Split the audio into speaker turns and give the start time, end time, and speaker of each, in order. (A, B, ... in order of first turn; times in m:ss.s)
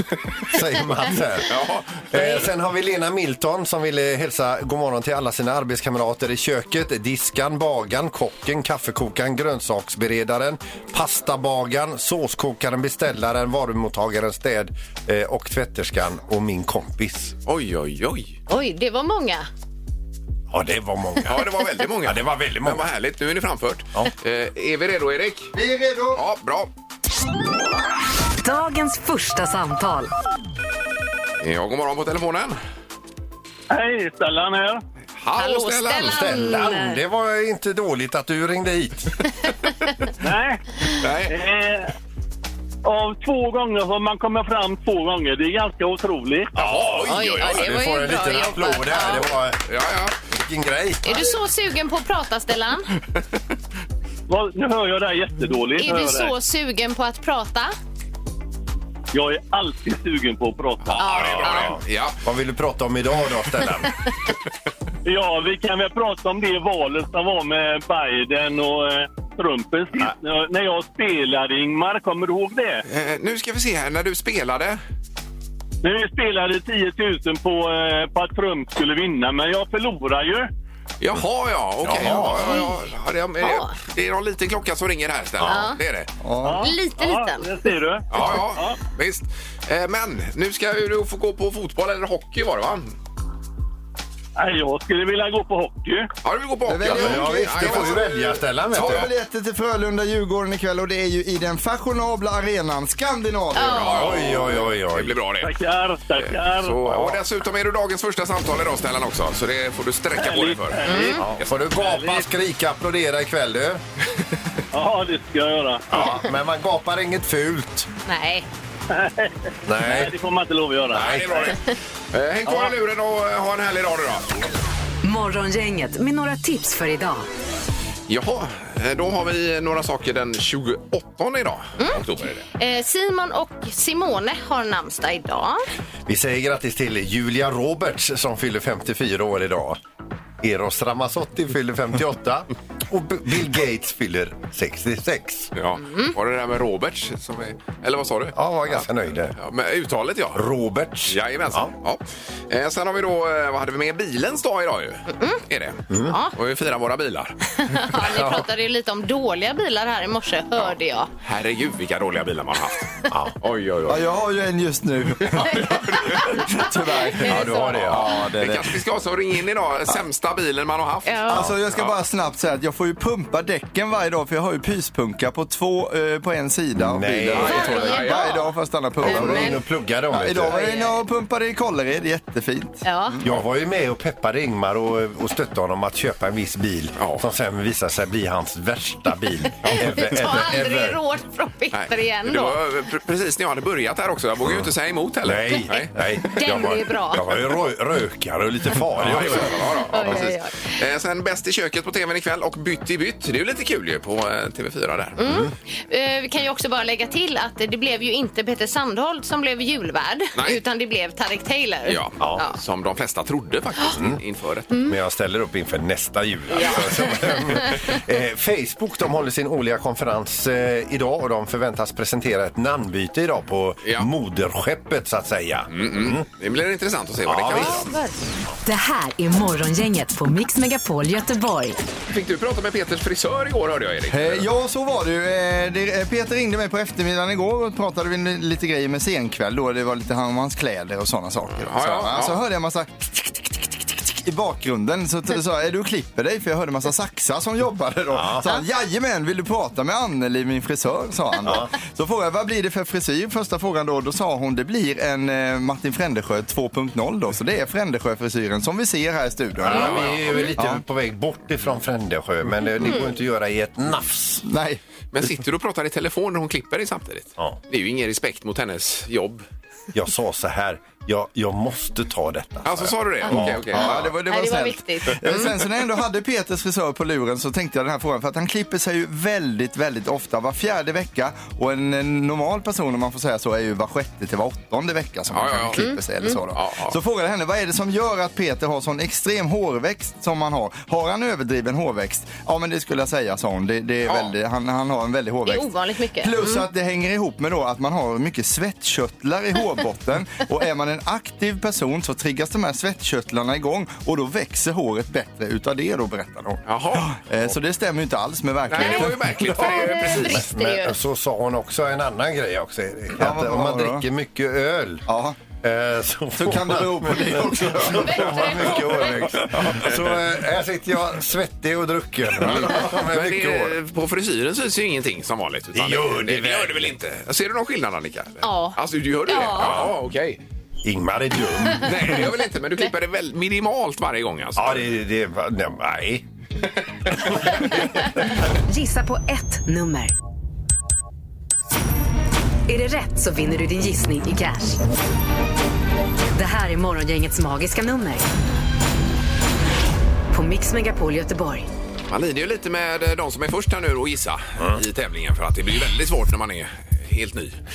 0:00.5-0:01.6 A
0:01.5-0:02.4 B
0:02.1-0:17.4 A
0:17.4-0:18.4 B
0:18.5-0:19.5 C
0:20.5-0:21.5 A
0:21.2-0:25.5 B
0:22.0-0:22.9 A
0:25.5-0:26.2 D
0:26.1-0:26.7 B
0:28.4-0:30.1 E
0:31.4-0:32.6 B
0:33.7-0:34.8 F
0:35.2-0:36.2 B
0:35.4-0:37.0 C
0:36.0-0:39.2 A
0:40.2-0:40.6 F
0:41.0-0:41.4 B
0:41.2-0:41.9 F
0:42.8-0:46.5 F
0:46.5-0:49.7 A
0:46.6-0:47.8 B
0:47.1-0:49.3 C
0:49.6-0:50.2 B
0:50.2-0:51.3 A
0:51.0-0:52.9 C
0:54.3-0:56.3 F
0:55.8-0:57.7 C
0:59.1-1:01.4 F
1:00.9-1:02.2 B
1:01.0-1:01.6 C
1:01.2-1:03.9 A
1:05.0-1:12.8 F
1:12.9-1:14.8 B
1:15.8-1:20.5 F
1:21.0-1:26.1 B
1:21.8-1:22.6 A
1:22.2-1:22.8 C
1:23.4-1:23.7 C
1:25.4-1:25.7 A
1:25.4-1:25.8 C
1:26.2-1:26.7 D
1:26.4-1:28.8 F
1:26.6-1:27.5 C
1:28.1-1:32.9 B
1:34.4-1:36.1 F
1:36.2-1:38.2 B
1:36.6-1:38.0 D
1:36.8-1:39.1 A
1:38.7-1:39.1 B
1:38.7-1:44.0 D
1:43.5-1:44.2 C
1:43.7-1:45.6 B
1:43.9-1:45.2 A
1:45.4-1:46.8 F
1:46.2-1:51.5 B
1:46.8-1:47.2 A
1:50.1-1:51.1 F
1:50.8-1:51.2 C
1:51.2-1:53.8 A
1:51.7-1:52.3 F
1:54.7-1:55.9 F
1:55.9-1:57.9 A
1:58.1-1:58.4 C
1:58.9-2:01.5 F
1:59.6-2:00.1 A
2:00.9-2:01.5 A
2:00.9-2:01.6 B
2:02.1-2:04.5 B
2:02.4-2:02.7 F
2:05.0-2:07.3 E
2:08.1-2:12.4 B
2:12.5-2:15.6 C
2:16.0-2:19.8 A
2:20.4-2:25.5 A
2:25.5-2:28.8 B
2:25.8-2:26.1 C
2:28.3-2:29.4 A
2:29.4-2:30.4 B
2:30.3-2:31.7 A
2:31.1-2:37.4 B
2:35.1-2:35.4 C
2:35.9-2:36.2 A
2:36.1-2:36.3 C
2:37.6-2:41.1 C
2:38.0-2:38.4 A
2:40.6-2:42.9 B
2:43.1-2:43.4 A
2:43.4-2:44.1 B
2:43.9-2:48.8 D
2:45.4-2:46.2 B
2:47.0-2:47.7 C
2:47.2-2:48.1 A
2:47.2-2:52.0 B
2:51.0-2:51.4 C
2:51.3-3:03.3 D
2:56.8-2:57.7 A
2:57.3-2:58.4 B
2:57.4-2:58.5 C
2:59.0-3:00.6 A
2:59.0-2:59.6 C
3:00.5-3:01.0 C
3:02.8-3:03.2 C
3:03.2-3:11.0 A
3:07.0-3:07.2 B
3:09.6-3:12.6 C
3:11.7-3:15.9 B
3:14.4-3:20.3 A
3:16.2-3:17.4 C
3:19.0-3:25.2 B
3:19.9-3:20.8 C
3:25.2-3:32.6 C
3:25.2-3:25.5 A
3:30.4-3:30.6 B
3:31.8-3:34.7 B
3:34.0-3:34.2 A
3:34.8-3:46.2 A
3:36.5-3:37.4 B
3:43.8-3:44.1 B
3:45.7-3:47.9 B
3:47.2-3:47.9 A
3:47.5-3:48.1 C
3:48.6-3:51.8 E
3:52.1-3:54.4 B
3:54.1-4:20.8 D
4:01.6-4:02.4 B
4:08.1-4:08.4 A
4:11.4-4:11.7 A
4:19.6-4:24.4 A
4:19.6-4:20.2 B
4:22.8-4:23.1 C
4:24.4-4:25.3 D
4:25.1-4:29.4 B
4:29.9-4:34.1 A
4:32.6-4:34.0 B
4:33.4-5:09.2 D
4:33.7-4:35.5 C
4:45.3-4:45.9 B
4:45.8-4:46.4 C
4:46.5-4:47.0 B
4:54.0-4:54.3 B
4:55.4-4:56.6 C
5:06.6-5:07.2 B
5:08.7-5:10.4 B
5:08.8-5:11.0 C
5:09.0-5:15.0 A
5:13.2-5:14.0 D
5:15.1-5:15.4 D
5:15.6-5:23.7 A
5:16.4-5:19.3 D
5:17.8-5:19.2 C
5:22.4-5:30.4 B
5:25.7-5:26.9 A
5:28.4-5:29.8 C
5:29.6-5:29.9 A
5:30.8-5:32.2 A
5:31.8-5:34.9 B
5:34.6-5:36.2 A
5:37.5-5:37.9 A
5:38.7-5:40.1 E
5:42.7-5:44.8 E
5:46.3-5:48.2 E
5:50.3-5:51.7 E
5:52.1-5:57.6 B